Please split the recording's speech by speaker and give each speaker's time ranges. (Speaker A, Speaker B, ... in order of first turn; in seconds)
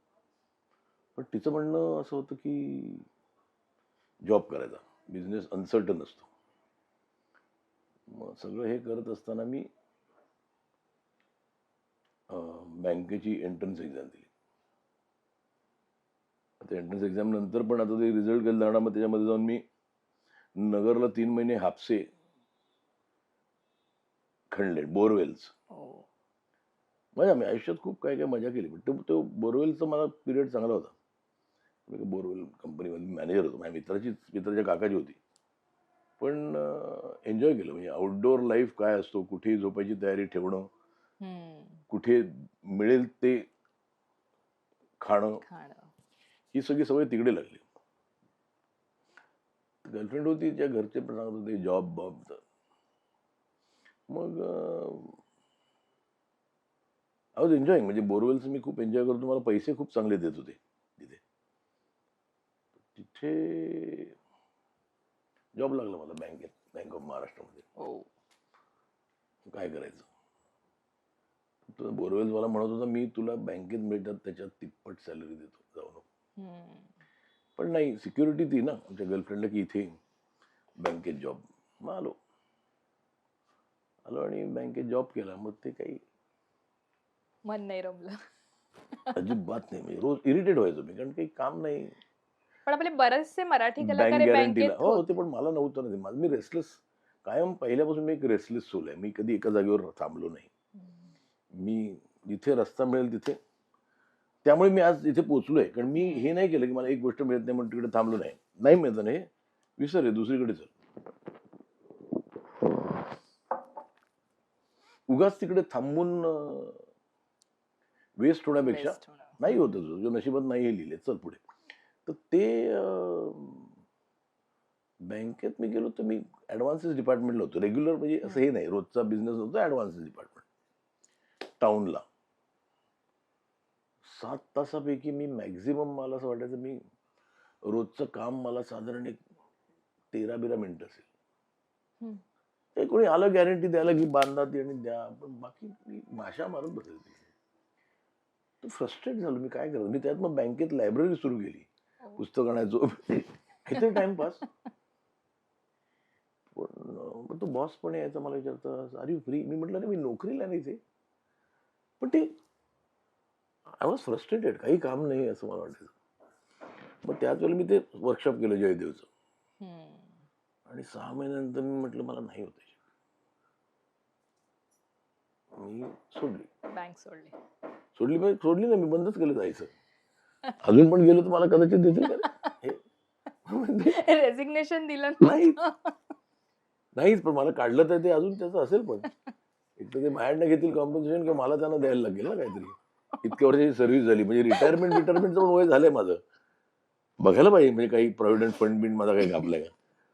Speaker A: 1.1-3.0, 4.2-6.3, 8.1-9.7, 12.3-14.3, 16.6-19.6, 20.6-22.1, 24.5-25.5, 27.1-30.9, 31.9-35.2, 36.2-40.7, 41.9-43.5, 45.0-45.4, 46.5-47.6, 49.8-52.4, 54.1-55.2, 57.4-61.2, 62.9-64.1, 65.6-67.7, 69.5-70.1, 71.7-76.0, 77.6-80.0, 80.8-82.2, 84.0-86.0, 89.1-91.9, 93.8-100.5, 101.5-103.4, 104.4-110.7, 115.1-116.8, 118.2-121.4, 122.0-123.7, 125.1-130.4, 131.6-132.0, 134.0-136.8, 137.7-139.2, 140.1-141.1, 142.8-147.3, 148.6-154.4, 156.5-160.8, 162.0-162.3, 163.8-165.9, 167.0-169.1, 170.7-172.7, 175.6-176.5, 177.9-179.7, 180.6-182.8, 183.5-184.0, 185.2-185.6, 186.9-189.1, 189.8-196.2, 197.2-199.7
Speaker B: 25.7-26.1, 41.2-41.8, 45.4-45.9, 67.8-68.1, 76.4-76.9, 87.5-88.2, 92.7-95.1, 106.0-106.3, 118.6-119.7, 153.7-154.1, 169.6-170.2, 176.7-177.3, 182.0-182.5, 183.9-185.9, 194.5-195.1